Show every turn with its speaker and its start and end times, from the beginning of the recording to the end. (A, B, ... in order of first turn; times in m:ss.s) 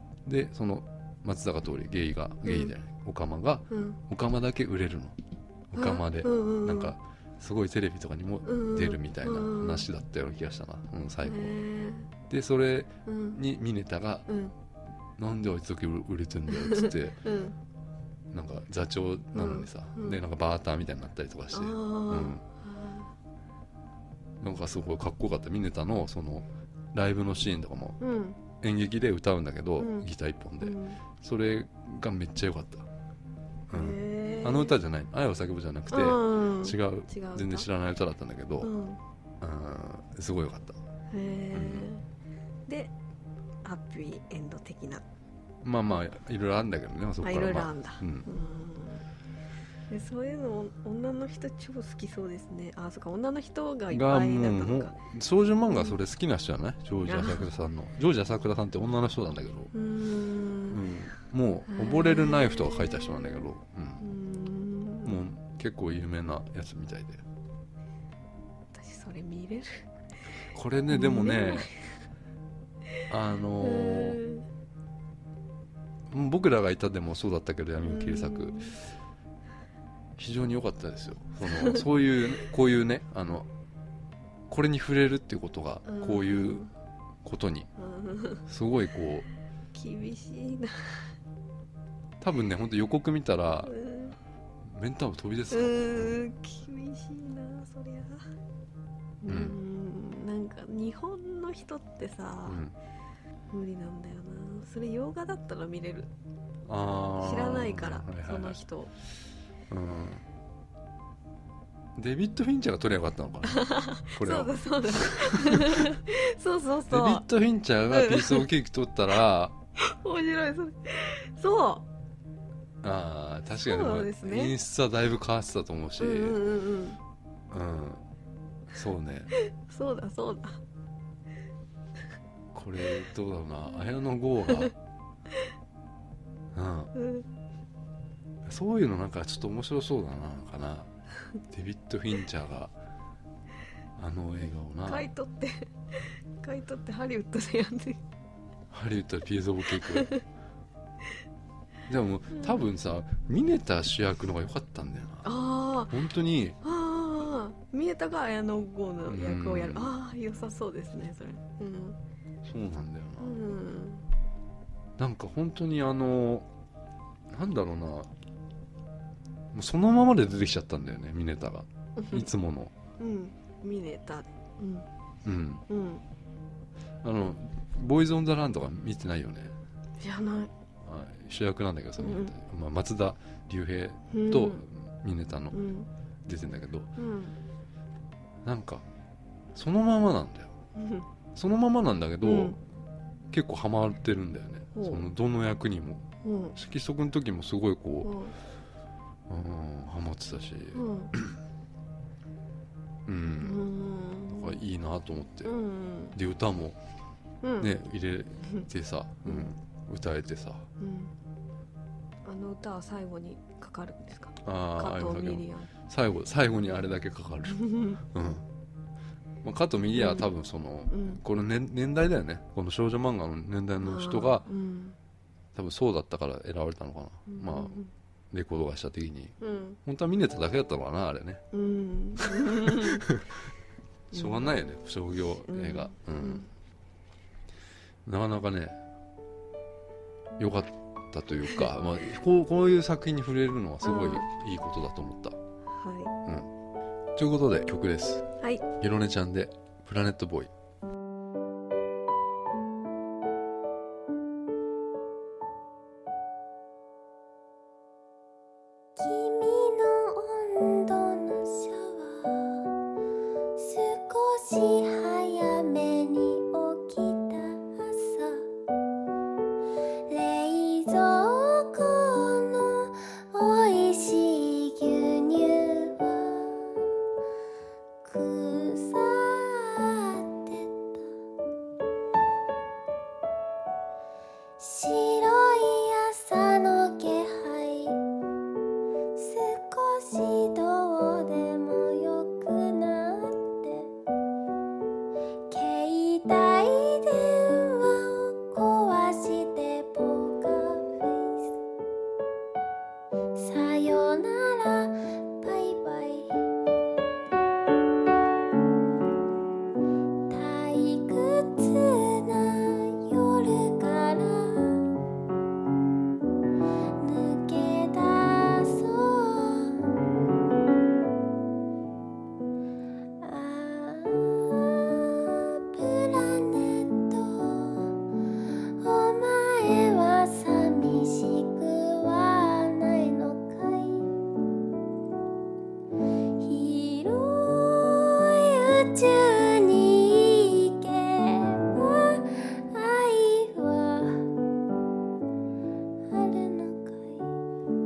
0:00.3-0:05.2 A
0:02.4-0:02.7 B
0:03.7-0:04.0 B
0:05.7-0:11.6 A
0:05.8-0:07.0 B
0:08.4-0:09.9 B
0:11.2-0:12.1 B
0:12.3-0:14.3 A
0:13.1-0:13.4 B
0:14.3-0:14.5 B
0:15.2-0:17.2 A
0:16.5-0:17.6 B
0:18.3-0:22.4 A
0:19.4-0:20.2 B
0:21.5-0:23.1 B
0:24.4-0:28.0 A
0:28.0-0:28.4 B
0:28.6-0:32.9 A
0:29.8-0:30.1 B
0:30.6-0:31.0 B
0:33.7-0:34.8 B
0:33.7-0:38.7 A
0:35.9-0:37.7 B
0:38.6-0:39.0 B
0:39.4-0:40.8 A
0:41.1-0:42.0 B
0:41.5-0:41.9 A
0:42.7-0:42.9 B
0:43.6-0:45.0 B
0:45.6-0:48.3 A
0:47.2-0:49.0 B
0:49.9-0:55.0 B
0:53.9-0:59.7 A
0:55.7-0:56.0 B
0:57.1-0:57.5 B
0:59.7-1:00.8 B
1:00.7-1:04.1 A
1:01.7-1:03.5 B
1:04.0-1:05.2 B
1:05.0-1:07.2 A
1:08.7-1:09.9 B
1:10.5-1:11.7 A
1:10.9-1:11.8 B
1:13.1-1:14.2 A
1:13.6-1:14.4 B
1:16.1-1:18.8 A
1:17.8-1:18.8 B
1:20.2-1:23.5 A
1:21.4-1:21.8 B
1:24.5-1:26.7 A
1:25.9-1:26.7 B
1:27.2-1:27.7 A
1:27.8-1:28.4 B
1:28.4-1:29.3 A
1:29.7-1:31.1 B
1:32.2-1:33.7 A
1:33.6-1:34.2 B
1:34.7-1:36.2 A
1:35.5-1:38.2 B
1:39.2-1:42.6 B
1:39.3-1:39.6 A
1:42.4-1:42.8 A
1:43.5-1:46.1 B
1:46.7-1:48.6 A
1:47.2-1:48.9 B
1:49.7-1:50.2 A
1:52.0-1:56.0 A
1:53.5-1:57.3 B
1:56.9-1:59.5 A
1:57.9-1:58.5 B
1:59.8-2:01.8 B
2:02.8-2:06.4 A
2:03.6-2:04.6 B
2:06.0-2:07.0 B
2:07.5-2:08.0 A
2:08.7-2:09.3 A
2:09.5-2:10.6 B
2:12.5-2:14.7 A
2:16.6-2:16.9 A
2:16.9-2:17.3 B
2:18.5-2:20.9 A
2:21.4-2:22.7 A
2:24.0-2:25.1 A
2:24.8-2:28.0 B
2:28.7-2:30.1 A
2:29.8-2:30.2 B
2:31.9-2:35.3 A
2:35.2-2:36.0 B
2:35.9-2:36.6 A
2:36.6-2:42.0 B
2:39.1-2:39.9 A
2:42.4-2:43.4 A
2:43.2-2:44.0 B
2:45.0-2:46.5 A
2:47.3-2:48.1 A
2:49.5-2:52.7 A
2:52.0-2:52.3 B
2:53.0-2:54.9 B
2:55.2-2:55.6 A
2:55.7-2:56.0 B
2:57.0-2:59.6 A
3:00.0-3:00.5 B
3:00.8-3:05.6 A
3:02.0-3:02.3 B
3:04.1-3:04.6 B
3:05.5-3:05.9 B
3:06.3-3:06.9 A
3:07.0-3:07.3 B
3:08.4-3:08.8 A
3:09.6-3:10.6 A
3:10.8-3:11.1 B
3:11.4-3:12.6 A
3:12.2-3:12.6 B
3:13.3-3:18.2 A
3:14.8-3:15.1 B
3:16.2-3:16.6 B
3:18.0-3:18.3 B
3:19.3-3:21.4 A
3:20.8-3:21.1 B
3:23.1-3:23.7 A
3:23.4-3:24.6 B
3:24.3-3:25.5 A
3:25.4-3:26.2 B
3:26.1-3:26.8 A
3:27.4-3:27.7 B
3:27.6-3:30.7 A
3:29.3-3:29.5 B
3:30.8-3:31.1 B
3:32.2-3:35.7 B
3:34.4-3:38.4 A
3:37.6-3:38.0 B
3:39.4-3:44.5 A
3:40.0-3:40.3 B
3:40.9-3:41.2 B
3:43.8-3:45.0 B
3:45.6-3:47.8 A
3:47.3-3:47.9 B
3:48.3-3:51.4 A
3:49.4-3:49.8 B
3:51.5-3:53.1 B
3:52.2-3:53.3 A
3:54.1-3:54.4 B
3:54.1-3:56.5 A
3:55.5-3:56.5 B
3:58.1-3:58.8 A
4:00.4-4:05.4 A
4:03.8-4:04.2 B
4:05.7-4:06.1 B
4:07.2-4:10.5 A
4:08.4-4:08.6 B
4:19.0-4:22.7 C
4:23.6-4:28.5 C
4:30.1-4:36.6 C
4:38.0-4:41.1 C
4:44.6-4:48.0 C
4:49.2-4:53.9 C
4:55.5-5:01.5 C
5:03.4-5:06.4 C
5:10.3-5:14.8 C
5:17.0-5:19.8 C
5:23.2-5:27.9 C
5:28.8-5:34.1 C
5:36.4-5:44.3 C
5:46.1-5:47.3 C